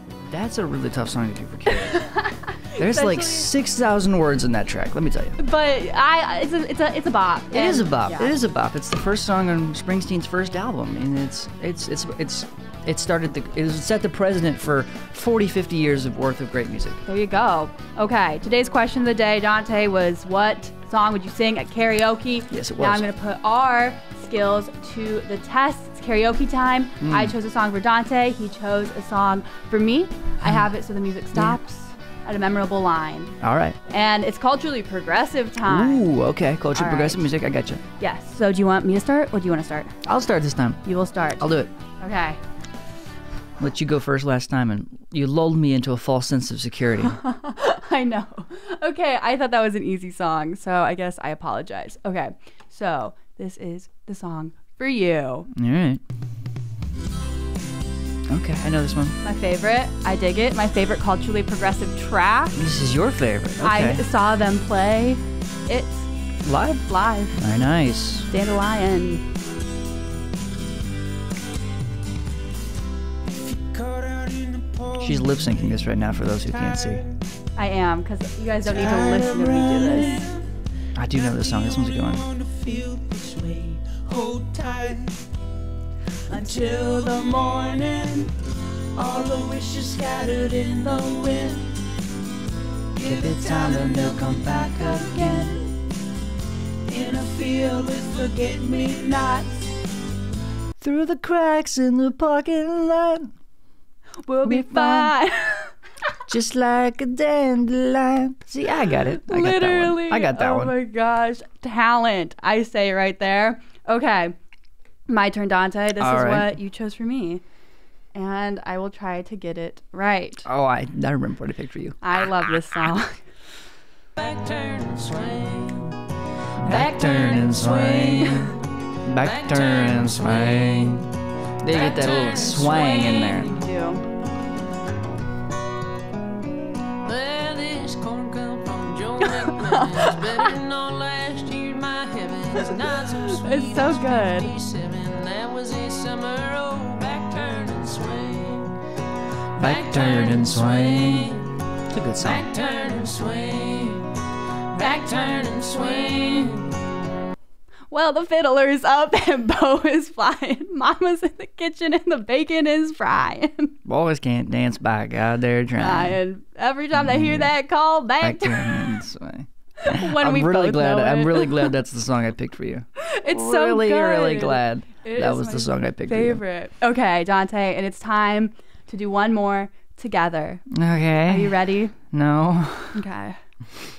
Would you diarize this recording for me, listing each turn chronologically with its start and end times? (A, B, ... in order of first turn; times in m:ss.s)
0:00.3-0:02.0 A
0:01.7-0:03.5 B
0:02.7-0:05.4 A
0:05.4-0:08.3 B
0:07.5-0:17.0 A
0:17.0-0:33.3 B
0:22.5-0:23.0 A
0:27.0-0:27.3 A
0:33.4-0:33.8 A
0:33.9-0:36.1 B
0:35.6-0:37.8 A
0:36.7-0:37.2 B
0:38.0-0:40.0 B
0:40.0-0:40.8 A
0:40.8-0:42.4 B
0:41.4-0:41.7 A
0:43.6-0:47.2 A
0:47.1-0:55.5 B
0:55.5-0:56.0 A
0:58.3-0:59.2 A
0:59.2-1:02.6 B
1:02.6-1:04.0 A
1:03.6-1:06.1 B
1:06.4-1:08.3 A
1:06.8-1:07.4 B
1:08.3-1:09.3 B
1:15.0-1:17.1 A
1:17.6-1:20.3 B
1:20.9-1:22.3 A
1:22.5-1:25.1 C
1:26.3-1:28.3 C
1:29.0-1:31.7 C
1:33.0-1:35.6 A
1:36.9-1:39.6 C
1:40.8-1:43.3 A
1:44.2-1:45.7 B
1:44.4-1:45.1 A
1:46.3-1:50.7 A
1:49.2-1:54.3 B
1:55.1-1:57.4 B
1:56.0-1:56.5 A
1:58.1-2:00.5 B
2:00.4-2:02.0 A
2:02.0-2:03.3 B
2:04.2-2:05.9 C
2:06.6-2:13.5 A
2:06.6-2:08.5 B
2:06.9-2:07.9 C
2:09.3-2:10.7 C
2:11.7-2:13.2 C
2:12.9-2:14.0 B
2:17.0-2:28.8 C
2:19.2-2:20.5 B
2:23.0-2:24.5 B
2:29.6-2:31.3 C
2:29.6-2:32.5 A
2:32.2-2:34.1 C
2:34.7-2:36.7 C
2:37.9-2:43.7 B
2:43.8-2:46.2 A
2:45.8-2:49.0 B
2:46.9-2:47.5 A
2:48.2-2:56.4 A
2:49.8-2:51.7 B
2:53.0-3:00.7 B
3:00.7-3:03.0 A
3:01.2-3:02.0 B
3:02.9-3:03.4 B